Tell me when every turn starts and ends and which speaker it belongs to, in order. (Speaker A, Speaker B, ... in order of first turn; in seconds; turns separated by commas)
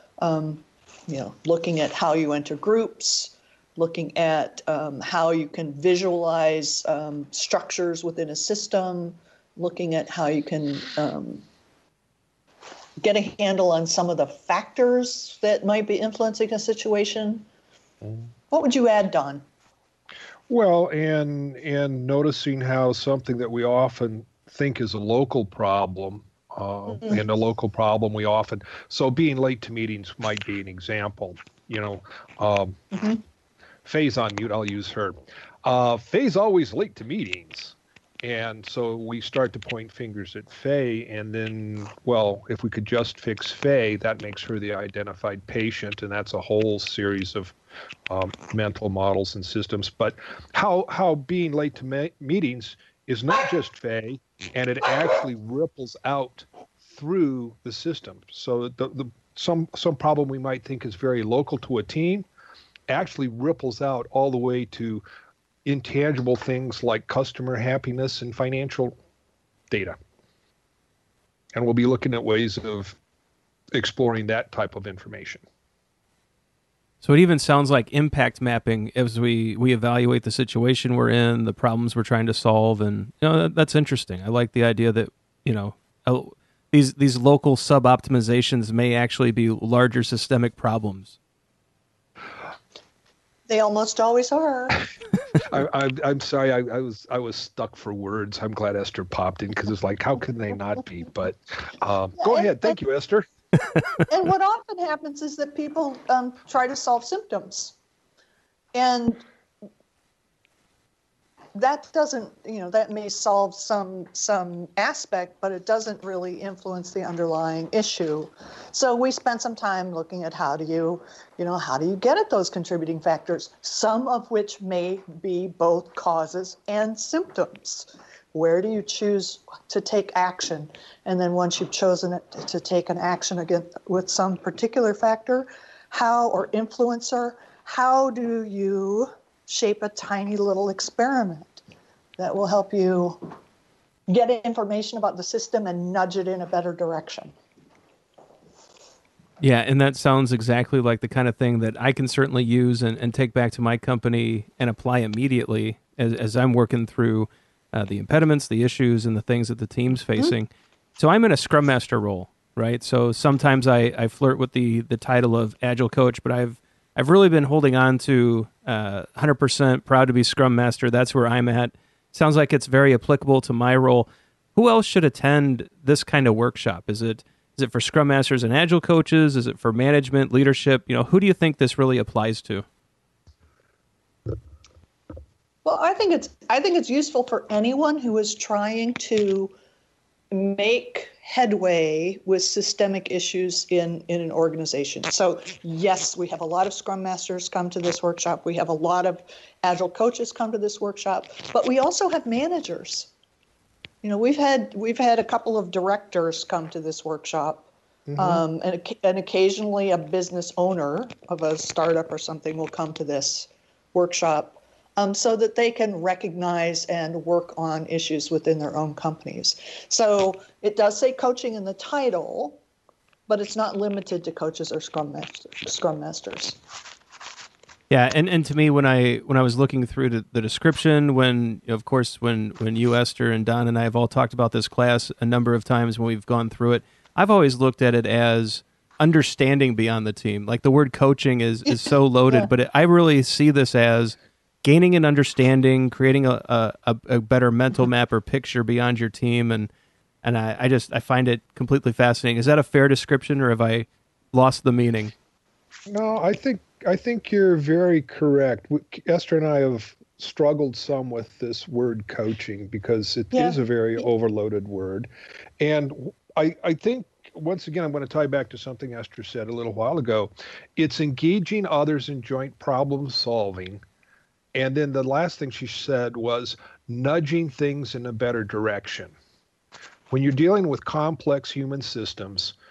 Speaker A: 0.2-11.4, Speaker A: 13.0-17.4, Speaker A: 18.5-19.4, Speaker B: 20.5-32.8, Speaker A: 32.9-33.2, Speaker B: 33.8-47.5, Speaker B: 48.1-62.2, Speaker B: 62.9-65.0, Speaker B: 65.6-69.0, Speaker B: 69.7-70.0, Speaker B: 71.5-73.0, Speaker B: 73.7-75.4, Speaker C: 77.0-91.2, Speaker A: 93.5-94.8, Speaker B: 95.5-103.3, Speaker A: 102.2-102.8, Speaker A: 104.1-107.7, Speaker A: 108.7-109.2, Speaker A: 111.5-141.6, Speaker A: 142.2-143.3, Speaker A: 144.1-147.3, Speaker C: 149.4-182.6, Speaker A: 185.6-189.5, Speaker A: 190.3-203.1, Speaker A: 204.0-222.6, Speaker B: 208.1-208.4, Speaker A: 223.3-226.6, Speaker C: 227.9-249.7, Speaker A: 241.7-242.5, Speaker C: 250.2-255.1, Speaker B: 255.9-265.1, Speaker B: 265.6-273.8, Speaker B: 274.5-279.1, Speaker B: 280.1-282.5